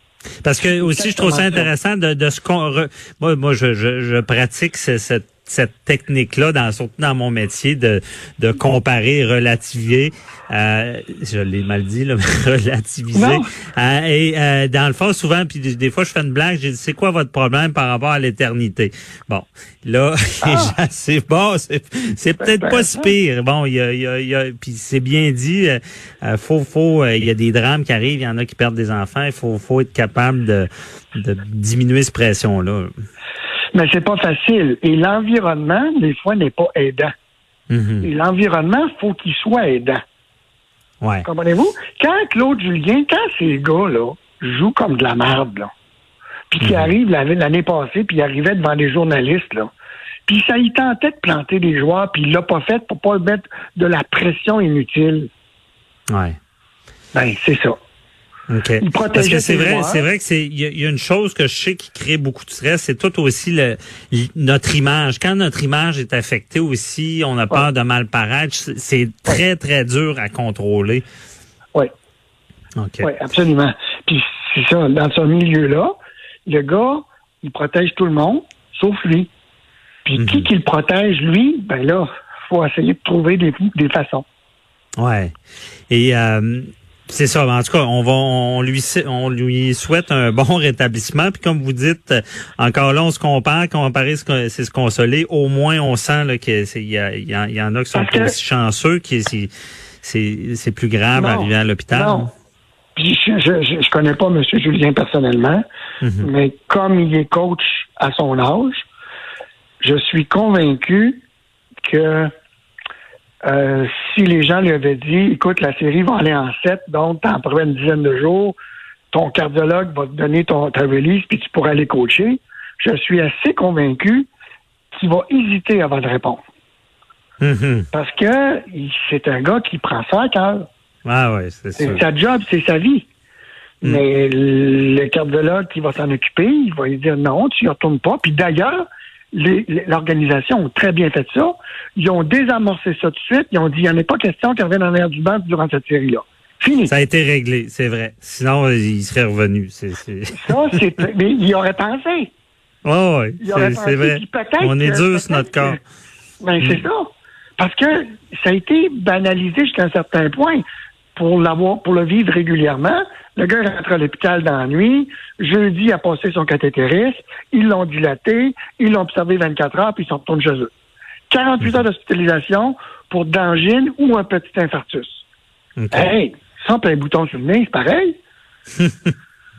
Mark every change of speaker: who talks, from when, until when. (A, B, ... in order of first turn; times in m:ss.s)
0:00.4-0:32.9 A
0:00.8-0:01.7 B
0:13.1-0:13.4 B
0:20.4-0:20.8 B
0:22.4-0:23.1 B
0:33.7-0:37.1 B
0:37.7-0:38.1 A
0:38.0-0:40.0 B
0:41.0-0:41.3 A
0:41.2-0:45.7 B
0:46.5-0:49.7 B
0:46.6-0:46.9 A
0:50.3-0:55.3 B
0:56.1-0:56.4 A
0:57.1-0:57.8 B
0:58.5-1:11.0 A
0:58.8-1:00.1 B
1:12.8-1:13.1 A
1:13.0-1:19.3 B
1:20.0-1:24.2 B
1:20.2-1:20.5 A
1:25.0-1:25.3 A
1:25.9-1:39.5 A
1:37.9-1:38.3 B
1:40.0-1:42.3 A
1:41.2-1:42.3 B
1:43.0-1:45.6 B
1:46.0-1:46.3 A
1:46.2-1:48.8 B
1:49.8-1:51.2 B
1:51.8-1:52.3 B
1:53.4-1:58.6 B
1:59.1-2:04.3 B
2:04.9-2:06.4 B
2:07.4-2:07.9 A
2:07.9-2:10.7 B
2:11.0-2:12.0 A
2:11.8-2:13.1 B
2:13.8-2:26.9 B
2:26.9-2:30.8 A
2:30.3-2:32.3 B
2:32.8-2:35.8 A
2:33.4-2:35.8 B
2:36.4-2:40.6 B
2:41.2-2:50.7 B
2:51.3-2:55.2 B
2:55.8-2:56.1 A
2:55.9-2:58.2 B
2:58.8-2:59.1 A